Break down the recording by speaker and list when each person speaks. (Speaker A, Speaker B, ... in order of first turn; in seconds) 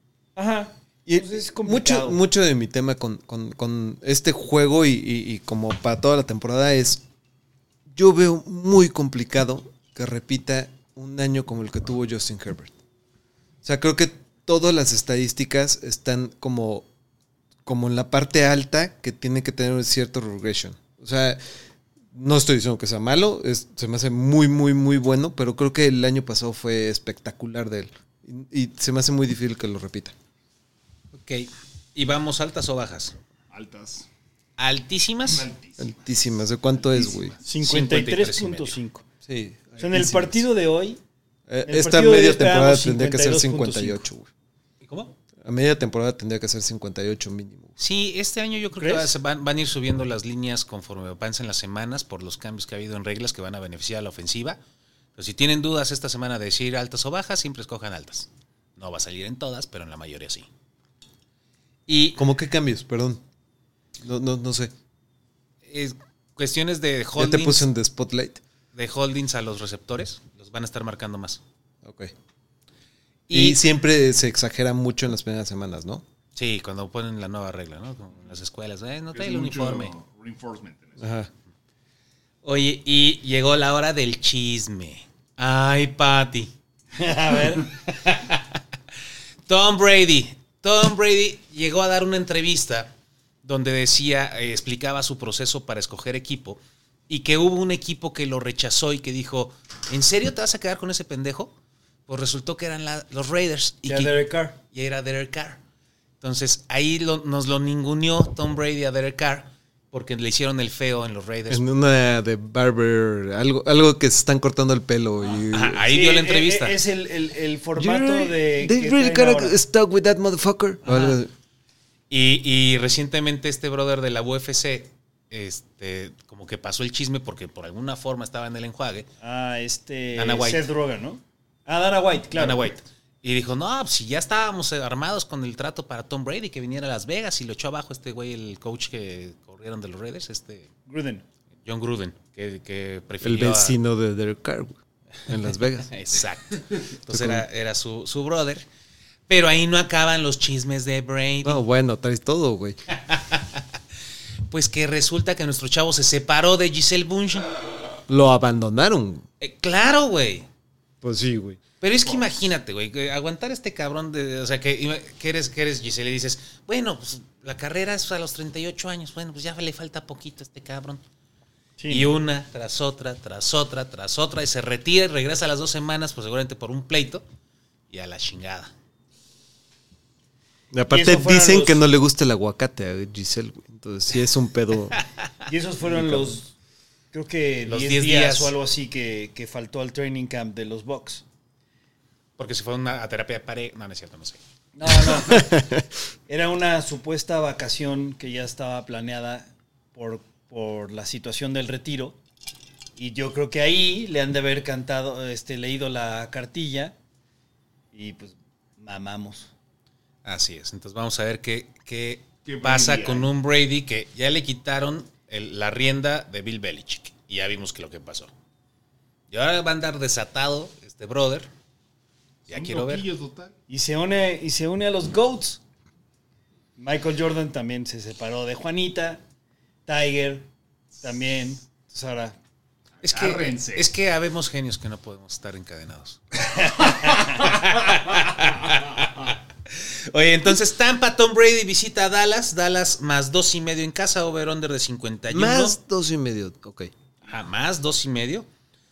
Speaker A: 0.3-2.2, 37.4-39.0, 39.8-41.0, 41.6-44.0, 48.8-49.1, 87.0-87.7, 103.8-104.5, 115.8-119.5, 129.2-132.7, 140.9-141.2, 171.8-172.1, 180.9-181.8, 185.5-186.5, 187.1-191.2, 194.8-195.7, 196.3-202.2, 203.0-206.9, 207.9-209.5, 223.7-225.6, 226.8-229.2, 229.8-230.4, 231.0-232.4, 236.8-237.3
Speaker B: 1.1-7.0, 7.9-12.7, 13.6-16.9, 17.6-21.4, 22.1-30.1, 35.8-37.4, 39.2-40.4, 41.5-44.3, 45.4-47.7, 62.1-63.2, 64.0-64.7, 67.2-68.4, 71.8-72.1, 73.3-76.0, 81.0-81.3, 111.5-115.8, 117.8-121.3, 143.2-144.8, 145.3-145.9, 147.1-147.4, 151.4-152.8, 158.1-159.2, 161.0-161.6, 180.7-185.0, 185.9-186.3, 195.3-195.8, 245.3-246.9
Speaker C: 31.1-33.1, 34.6-35.5, 37.6-38.8, 44.8-45.1, 47.8-54.6, 55.1-60.5, 61.9-62.2, 65.7-67.7, 68.7-71.4, 73.3-73.6, 76.3-79.9, 82.4-86.5, 87.9-88.6, 89.5-92.9, 93.4-101.5, 102.1-104.2, 104.7-105.6, 106.2-111.6, 115.5-116.8, 120.8-121.2, 122.1-129.1, 130.1-130.6, 132.3-140.7, 141.6-143.8, 145.8-148.6, 149.3-151.6, 152.9-153.6, 154.5-157.5, 159.4-160.4, 161.8-171.0, 171.9-177.2, 177.9-178.7, 187.7-188.5, 192.4-194.4, 210.2-218.3, 219.3-221.5, 222.5-223.1, 233.0-236.2, 236.8-245.8, 247.2-248.5
Speaker D: 33.5-34.1, 35.2-36.0, 36.9-37.3, 79.1-81.1, 212.4-213.3, 222.5-223.5, 233.0-233.9